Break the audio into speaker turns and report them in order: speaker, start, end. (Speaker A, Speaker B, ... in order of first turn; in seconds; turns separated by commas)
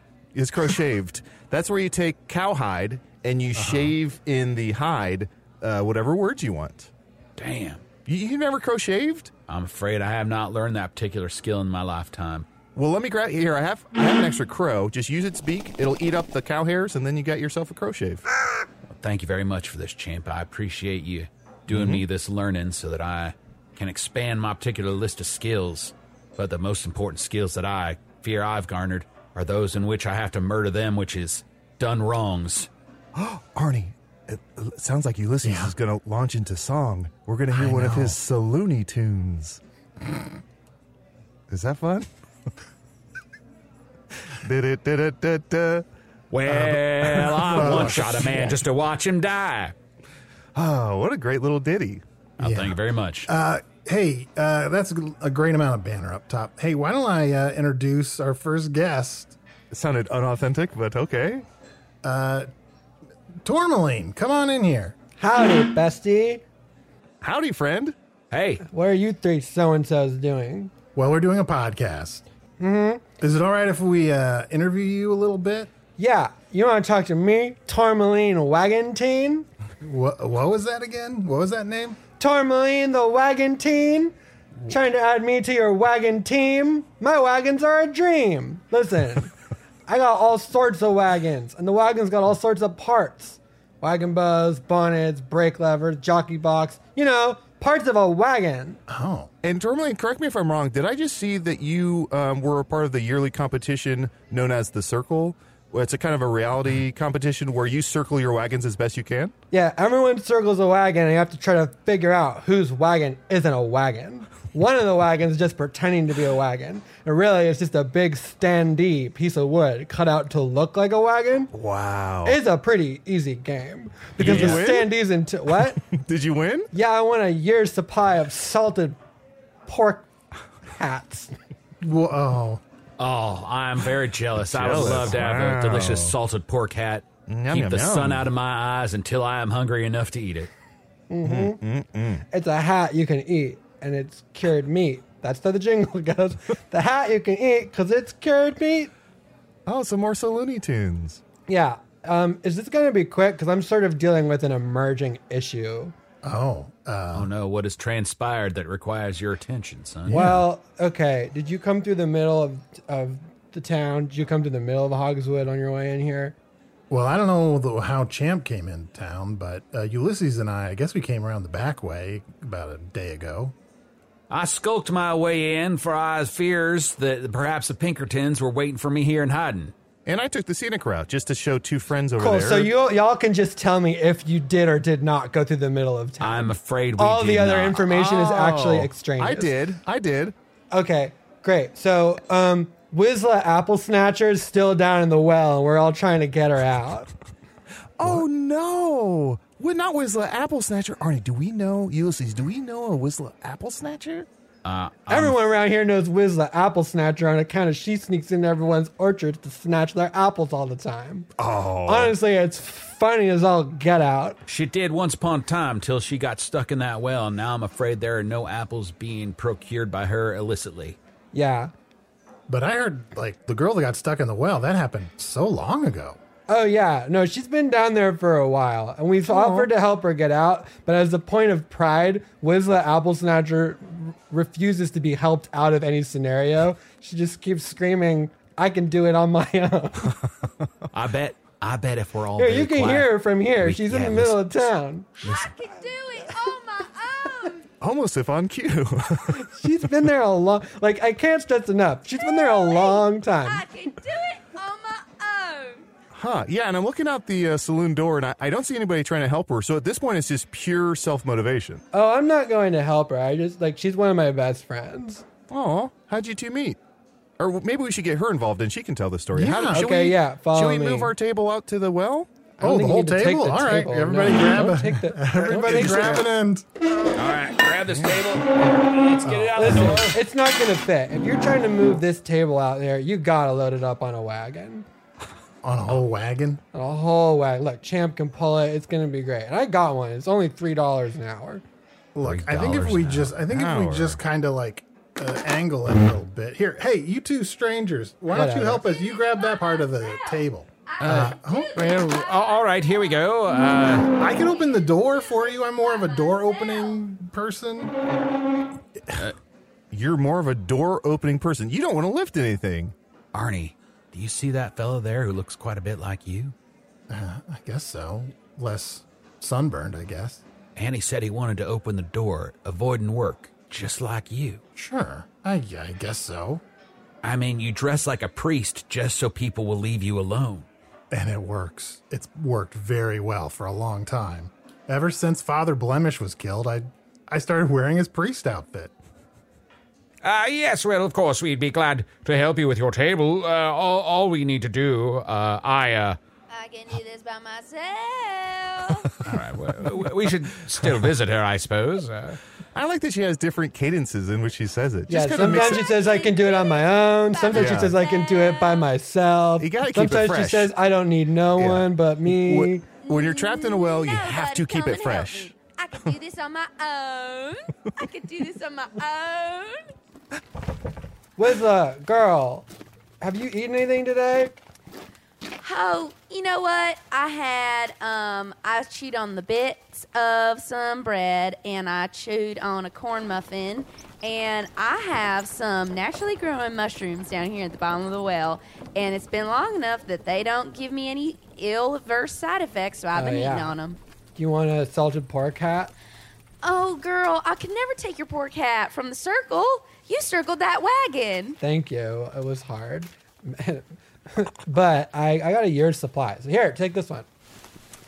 Speaker A: 0.3-6.9, Speaker B: 3.5-4.0, Speaker C: 7.4-7.8, Speaker A: 8.1-9.3, Speaker C: 9.5-12.4, Speaker A: 12.7-18.2, Speaker C: 19.0-32.7, Speaker A: 21.7-22.0, Speaker A: 33.1-39.6, Speaker B: 35.4-35.7, Speaker B: 37.5-38.2, Speaker A: 41.5-42.1, Speaker A: 44.3-45.9, Speaker C: 46.3-49.7, Speaker A: 46.5-48.1, Speaker B: 47.4-48.6, Speaker A: 50.5-52.0, Speaker C: 52.4-53.3, Speaker B: 52.4-59.4, Speaker A: 59.7-61.4, Speaker B: 62.0-62.5, Speaker B: 63.4-65.0, Speaker D: 65.2-66.4, Speaker A: 67.2-67.9, Speaker C: 68.3-68.6, Speaker D: 68.7-70.7, Speaker B: 70.9-72.2, Speaker D: 72.6-73.1, Speaker B: 73.2-75.7, Speaker D: 76.0-79.5, Speaker B: 79.8-82.0, Speaker D: 82.2-84.1, Speaker D: 84.7-89.3, Speaker D: 89.9-98.8, Speaker B: 98.9-99.3, Speaker A: 99.4-109.3, Speaker D: 109.5-121.5, Speaker A: 121.5-122.4, Speaker D: 122.2-125.8, Speaker A: 124.2-126.7, Speaker C: 124.2-124.6, Speaker D: 126.7-129.0, Speaker D: 129.7-130.1, Speaker D: 130.7-131.3, Speaker B: 131.8-132.6, Speaker C: 133.0-140.5, Speaker A: 134.4-136.2, Speaker A: 137.3-138.3, Speaker D: 141.1-141.6, Speaker A: 141.2-142.2, Speaker D: 142.3-148.9, Speaker A: 149.7-151.2, Speaker D: 151.5-155.9, Speaker B: 156.2-157.3, Speaker C: 157.1-160.3, Speaker B: 160.1-160.4, Speaker D: 160.1-166.3, Speaker B: 166.9-173.5, Speaker C: 174.3-179.7, Speaker A: 180.1-182.7, Speaker D: 182.2-189.6, Speaker C: 186.2-187.9, Speaker A: 187.9-190.3, Speaker D: 190.7-197.1, Speaker A: 198.0-204.3, Speaker C: 204.6-205.4, Speaker D: 205.1-211.3, Speaker A: 211.4-212.1, Speaker D: 211.8-214.4, Speaker C: 214.4-221.0, Speaker D: 221.3-221.7, Speaker B: 222.5-226.2, Speaker D: 226.5-240.2, Speaker A: 229.3-229.7, Speaker C: 240.9-244.7, Speaker D: 242.4-245.2, Speaker E: 245.2-247.6, Speaker A: 247.8-249.5, Speaker D: 249.3-253.6, Speaker E: 252.2-255.8, Speaker A: 256.1-261.8, Speaker D: 261.9-265.2, Speaker A: 265.5-266.8, Speaker A: 267.4-272.3, Speaker B: 269.3-269.9, Speaker D: 269.7-271.1, Speaker D: 272.6-276.2, Speaker B: 272.6-276.6, Speaker C: 277.1-280.2, Speaker B: 279.2-280.0, Speaker D: 279.6-284.9, Speaker B: 285.6-286.6, Speaker D: 286.7-291.6, Speaker B: 292.1-301.8, Speaker C: 292.2-293.4, Speaker A: 293.5-294.2, Speaker D: 298.3-298.8, Speaker E: 299.1-303.1, Speaker C: 301.0-304.1, Speaker B: 304.2-307.9, Speaker E: 304.9-307.0, Speaker A: 309.9-312.9, Speaker C: 313.3-316.5, Speaker B: 317.1-320.4, Speaker C: 320.8-324.6, Speaker B: 324.8-326.6, Speaker C: 327.2-330.7, Speaker B: 331.1-338.9, Speaker C: 340.2-346.2, Speaker E: 346.5-349.1, Speaker C: 349.2-352.4, Speaker A: 352.7-356.1, Speaker D: 355.1-362.9, Speaker E: 355.4-358.9, Speaker A: 357.5-358.0, Speaker A: 359.6-360.7, Speaker A: 361.5-365.5, Speaker E: 363.0-369.8, Speaker D: 371.4-372.7, Speaker D: 373.2-374.5, Speaker E: 375.6-394.0, Speaker D: 393.1-393.8, Speaker D: 394.4-395.9, Speaker E: 396.6-401.6, Speaker D: 401.6-407.2